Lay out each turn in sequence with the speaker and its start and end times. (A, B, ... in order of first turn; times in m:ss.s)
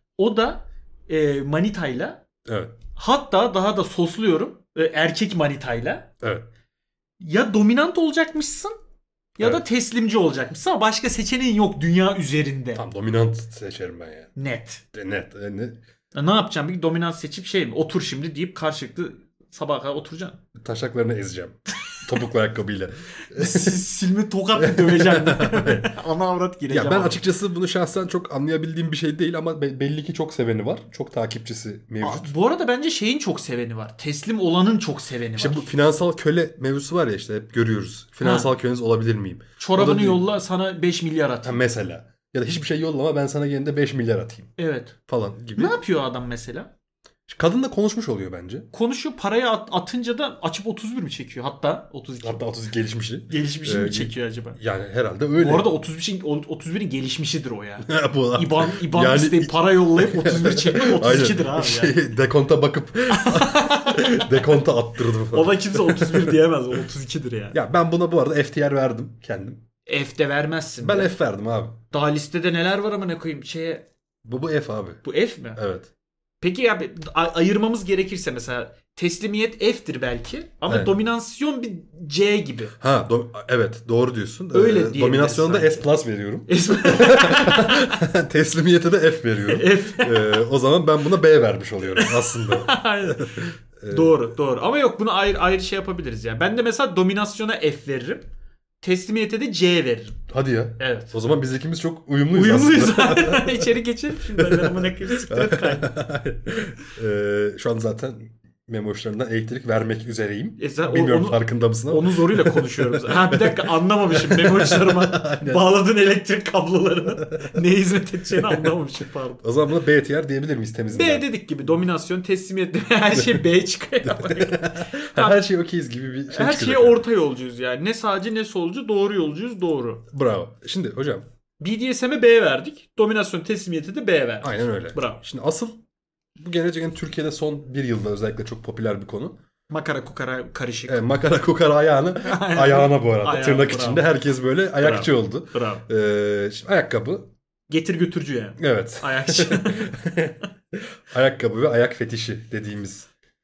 0:00.2-0:02.2 A
0:02.5-0:02.7 B
0:03.0-0:06.1 A
0:06.2-0:06.5 B
0:07.2-0:08.8 A
0:09.4-0:12.8 A
0:12.8-0:14.3 B
0:14.4-0:14.8 A
0:14.9-0:15.8 B
0:16.1-0:20.4 A
0:20.6-0:23.8 B
0:23.3-0:27.2 A
0:24.6-0:25.9 B
0:26.7-0:32.3 B
0:32.0-0:35.7 A
0:35.4-0:40.2 B
0:38.2-0:38.5 A
0:39.6-0:41.6 A
0:41.4-0:44.6 B
0:44.6-0:45.0 A
0:45.1-0:45.8 B
0:45.6-0:46.7 A
0:47.3-0:48.7 B
0:48.7-0:52.4 A
0:52.2-0:55.7 B
0:53.3-0:54.6 A
0:55.4-1:02.0 A
0:57.9-1:06.4 B
1:03.1-1:04.6 A
1:05.3-1:07.6 A
1:07.5-1:09.6 B
1:09.9-1:11.1 A
1:10.8-1:11.8 B
1:11.9-1:13.9 A
1:14.2-1:15.0 B
1:15.0-1:15.6 A
1:15.6-1:15.9 B
1:16.4-1:22.8 A
1:20.7-1:21.0 B
1:22.8-1:34.3 B
1:24.5-1:25.9 A
1:26.5-1:28.1 A
1:29.5-1:30.5 A
1:32.0-1:38.3 A
1:38.8-1:40.2 A
1:40.3-1:55.6 B
1:40.8-1:41.2 A
1:42.3-1:46.0 A
1:50.6-1:59.5 A
1:57.3-1:57.6 B
1:58.3-1:58.7 B
1:59.4-2:01.3 B
2:00.9-2:05.4 A
2:03.1-2:03.4 B
2:04.0-2:07.1 B
2:06.3-2:10.0 A
2:10.1-2:11.2 B
2:11.6-2:15.2 A
2:14.4-2:15.8 B
2:16.4-2:19.4 B
2:19.7-2:21.0 A
2:20.9-2:27.3 B
2:22.2-2:24.1 A
2:24.8-2:25.9 A
2:27.7-2:29.9 A
2:28.6-2:33.1 B